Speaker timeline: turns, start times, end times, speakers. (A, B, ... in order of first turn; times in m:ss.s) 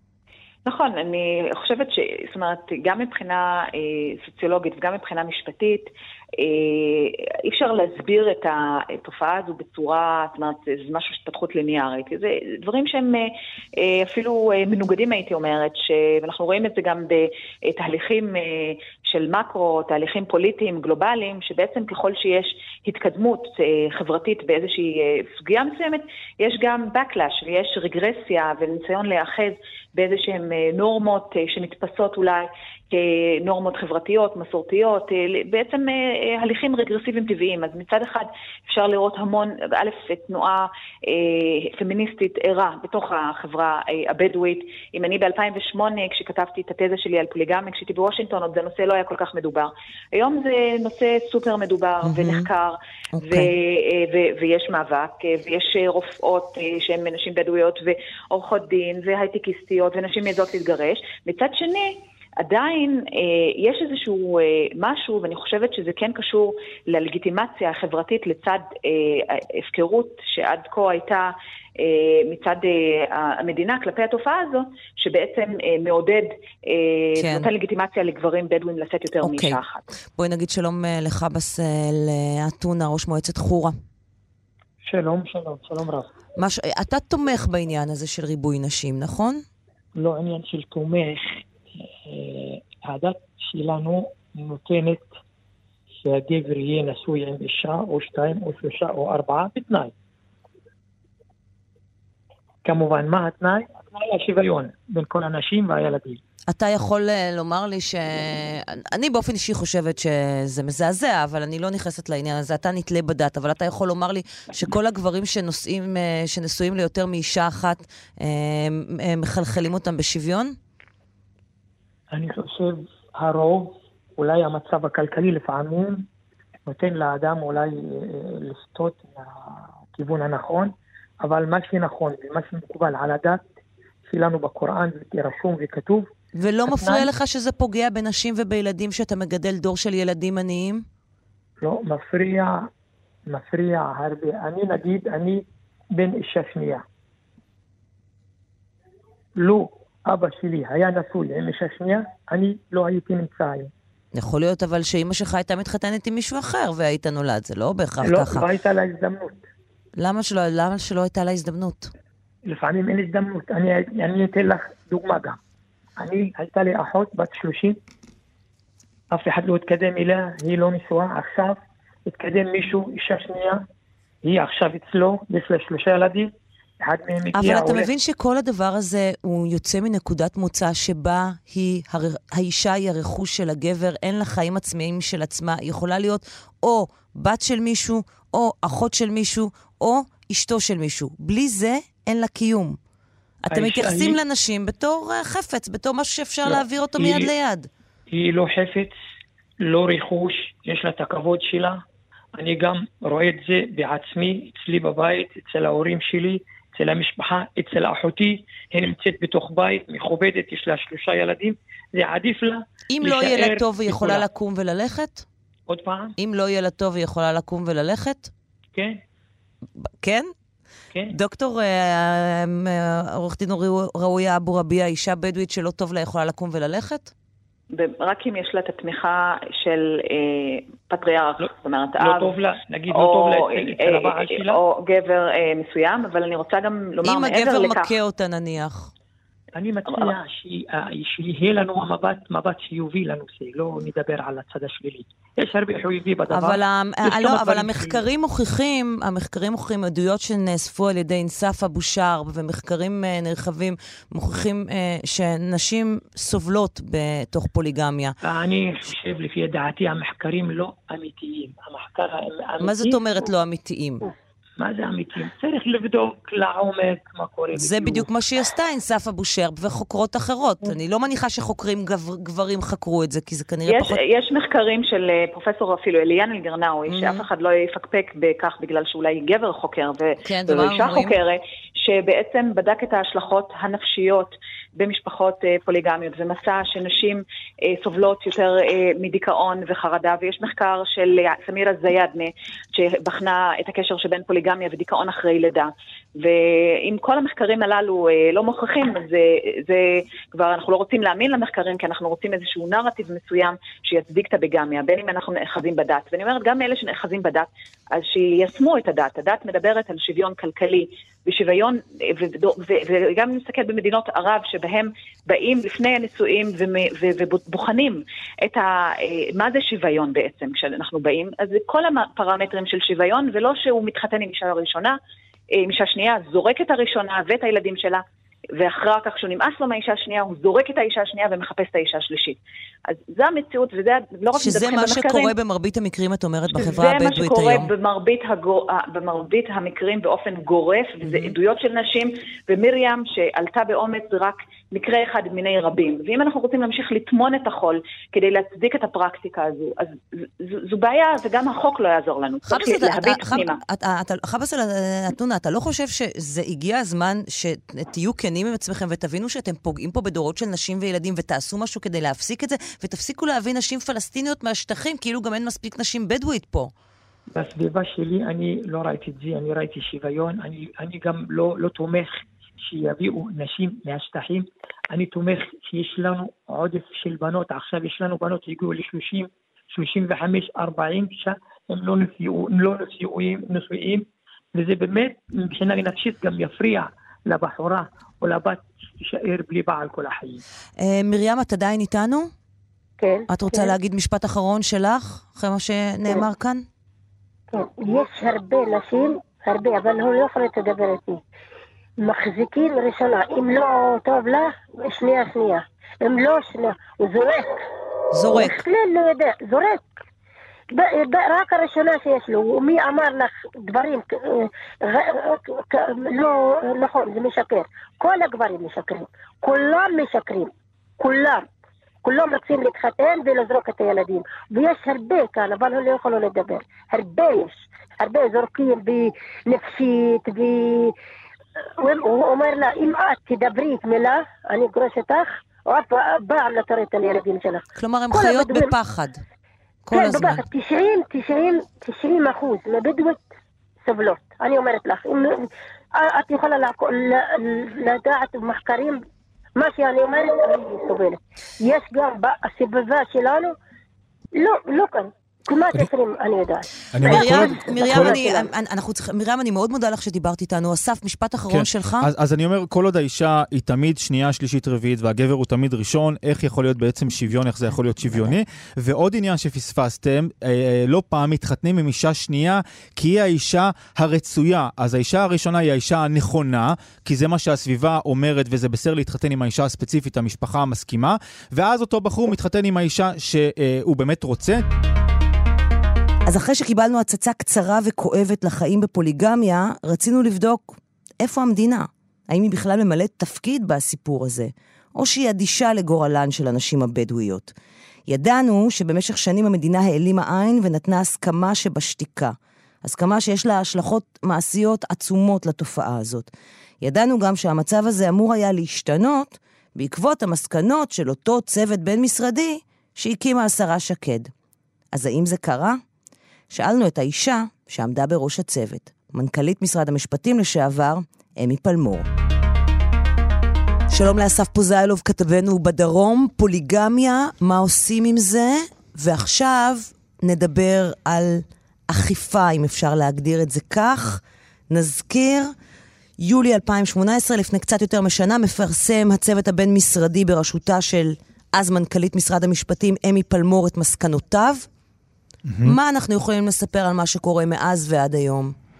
0:00.7-1:19.8 A
0:52.0-0:52.5 B
0:53.2-0:53.5 B
1:17.2-1:17.5 B
1:19.2-1:19.6 B
1:20.2-1:23.8 B
1:24.8-1:26.1 C
1:26.4-1:29.4 B
1:30.0-1:31.4 C
1:32.1-1:35.1 C
1:36.0-1:39.9 C
1:42.6-1:46.2 C
1:46.5-2:00.6 B
2:02.1-2:06.1 C
2:06.7-2:13.4 C
2:14.1-2:16.1 C
2:16.4-2:20.9 B
2:16.7-2:17.1 C
2:21.6-2:22.7 C
2:23.3-2:26.8 C
2:29.4-2:33.7 C
2:34.1-2:38.5 B
2:38.0-2:39.4 C
2:40.0-2:41.9 B
2:42.5-2:45.4 C
2:46.0-2:47.8 C
2:49.1-2:53.6 C
2:54.2-2:56.3 C
2:56.8-2:57.9 C
2:57.3-3:12.8 B
3:13.4-3:17.7 B
3:13.5-3:14.2 C
3:16.4-3:17.3 C
3:18.1-3:18.9 C
3:19.6-3:21.8 C
3:22.4-3:34.2 C
3:32.9-3:35.3 B
3:35.7-3:36.1 C
3:36.2-3:38.3 B
3:38.8-3:39.0 C
3:40.0-3:40.3 B
3:41.1-3:47.1 B
3:47.7-3:52.4 A
3:52.0-3:54.6 C
3:52.9-3:57.9 A
3:57.0-3:58.9 B
3:59.6-4:08.0 C
4:06.3-4:18.2 B
4:18.2-4:23.0 C
4:22.6-4:24.1 B
4:24.6-4:28.1 C
4:27.6-4:34.0 B
4:33.7-5:25.0 A
4:36.9-4:37.2 B
4:40.2-4:41.2 B
5:25.6-5:35.3 A
5:34.4-5:37.7 B
5:36.5-5:53.6 A
5:41.0-5:41.3 B
5:52.5-6:06.7 B
6:07.3-6:30.4 C
6:30.8-6:32.3 B
6:33.0-6:33.7 D
6:33.3-6:36.6 B
6:37.5-6:41.2 D
6:42.0-6:47.7 D
6:48.1-6:48.6 B
6:48.3-6:49.9 D
6:50.7-7:01.5 D
7:02.0-7:10.9 D
7:11.8-7:18.7 D
7:17.8-7:19.2 B
7:19.8-7:20.4 B
7:19.9-7:23.3 D
7:23.8-7:29.0 D
7:29.6-7:33.6 D
7:34.4-7:38.5 D
7:36.9-7:38.2 E
7:37.0-7:42.1 B
7:41.5-8:04.6 E
8:06.3-8:17.5 B
8:18.1-8:26.3 B
8:26.8-8:34.3 B
8:34.9-8:35.8 B
8:36.5-8:42.1 B
8:43.9-8:55.5 B
8:56.2-9:04.7 B
9:05.5-9:05.8 E
9:05.6-9:08.6 B